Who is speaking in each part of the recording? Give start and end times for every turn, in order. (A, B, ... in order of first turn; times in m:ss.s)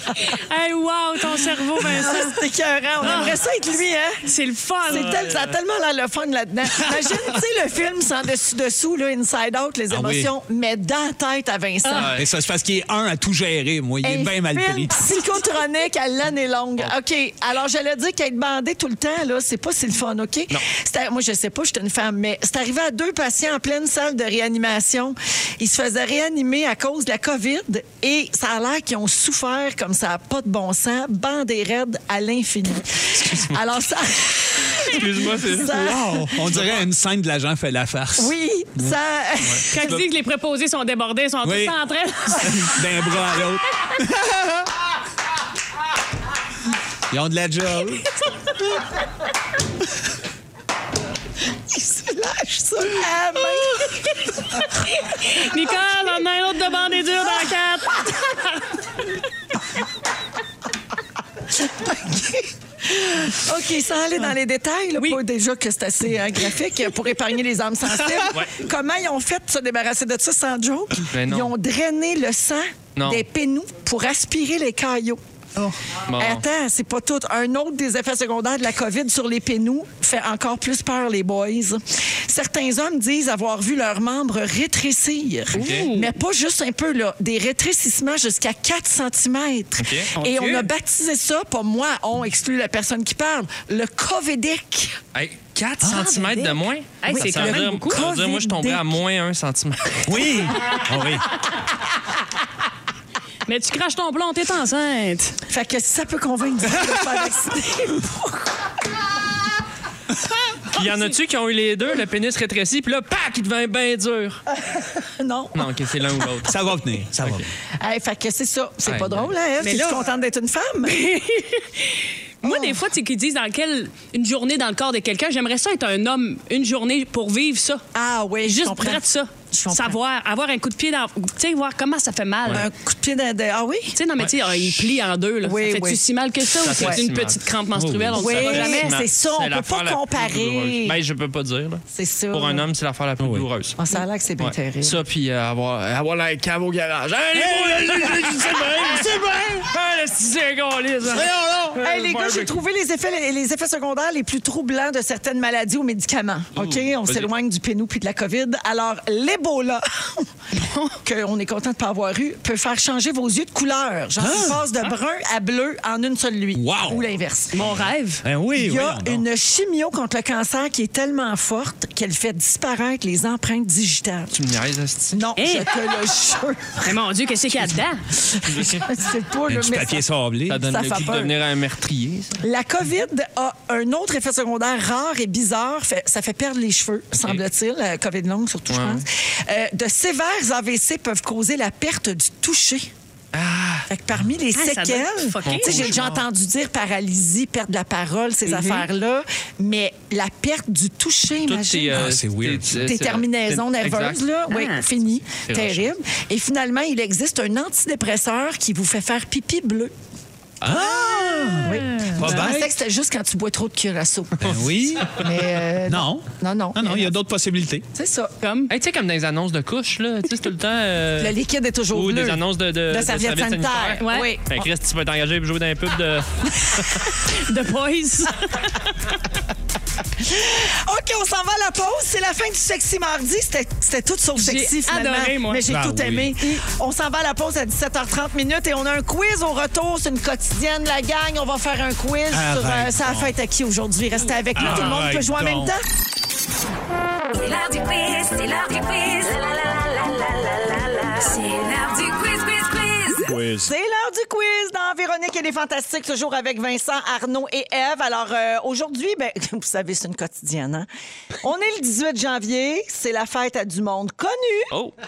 0:00.2-0:02.4 A
0:01.8-0:04.3 B
0:03.0-0:03.4 A
0:04.2-0:05.2 A
0:04.9-0:12.2 B
0:04.9-0:05.4 C
0:09.9-0:10.3 D
0:11.8-0:12.1 A
0:11.9-0:12.2 C
0:12.1-0:15.0 D
0:14.0-0:36.4 B
0:34.8-0:35.8 C
0:35.5-0:39.0 D
0:38.2-0:39.7 B
0:39.7-0:42.8 A
0:39.8-0:40.0 D
0:41.4-0:44.7 D
0:47.1-0:48.1 D
0:51.7-0:54.1 B
0:55.1-0:58.7 A
1:01.5-1:15.2 B
1:11.1-1:11.5 C
1:13.0-1:13.2 C
1:16.1-1:16.4 C
1:16.1-1:35.0 B
1:25.5-1:26.1 A
1:25.6-1:25.9 C
1:29.8-1:30.1 C
1:30.2-1:30.7 A
1:35.1-1:40.5 C
1:35.8-1:36.2 D
1:35.9-1:39.0 B
1:37.0-1:38.0 A
1:40.1-1:41.3 D
1:43.5-1:45.4 A
1:45.5-1:48.5 B
1:50.7-1:54.4 C
1:54.6-1:55.9 B
1:55.6-1:56.5 C
1:56.4-1:57.5 D
1:57.2-1:57.5 C
1:57.8-2:01.0 B
1:58.8-1:59.3 C
1:59.6-2:00.0 A
2:00.9-2:07.8 A
2:02.4-2:02.8 B
2:07.9-2:10.0 B
2:08.4-2:12.7 A
2:12.5-2:14.0 B
2:14.0-2:19.0 A
2:14.2-2:14.5 D
2:15.4-2:16.0 B
2:16.6-2:17.4 C
2:16.7-2:17.0 B
2:17.8-2:18.2 D
2:18.1-2:23.8 C
2:18.2-2:21.0 B
2:21.9-2:22.7 B
2:23.2-2:23.5 D
2:23.8-2:25.0 B
2:24.4-2:32.6 C
2:27.3-2:29.7 D
2:31.1-2:31.8 D
2:31.8-2:40.3 B
2:36.6-2:37.3 C
2:40.5-2:41.0 A
2:41.0-2:47.8 B
2:44.2-2:44.7 D
2:46.5-2:47.0 D
2:47.5-2:48.2 A
2:47.6-2:49.3 D
2:48.6-2:54.3 B
2:54.3-2:55.2 C
2:55.1-3:00.0 B
2:55.4-2:55.7 A
2:56.8-2:58.0 A
2:58.5-2:58.9 C
2:59.5-3:00.8 D
3:00.5-3:02.4 C
3:00.6-3:01.4 B
3:02.4-3:12.9 B
3:07.2-3:07.4 C
3:08.7-3:09.0 C
3:13.3-3:13.9 C
3:13.9-3:22.2 B
3:14.5-3:15.9 A
3:15.4-3:16.2 C
3:18.5-3:18.9 C
3:21.5-3:24.2 C
3:21.9-3:22.9 D
3:22.8-3:29.9 B
3:24.5-3:24.8 A
3:25.4-3:25.9 C
3:30.6-3:32.8 D
3:31.6-3:37.1 B
3:34.4-3:35.3 D
3:35.9-3:37.9 D
3:38.0-3:38.3 B
3:38.4-3:38.7 A
3:38.7-3:41.4 C
3:41.2-3:44.7 B
3:41.9-3:47.1 C
3:44.0-3:44.3 A
3:47.2-3:49.2 A
3:50.2-4:05.8 B
3:54.4-3:55.6 A
3:55.7-3:56.4 D
4:02.3-4:03.3 D
4:04.6-4:05.7 D
4:07.3-4:13.4 E
4:13.3-4:13.7 D
4:13.5-4:20.9 B
4:21.4-4:24.8 B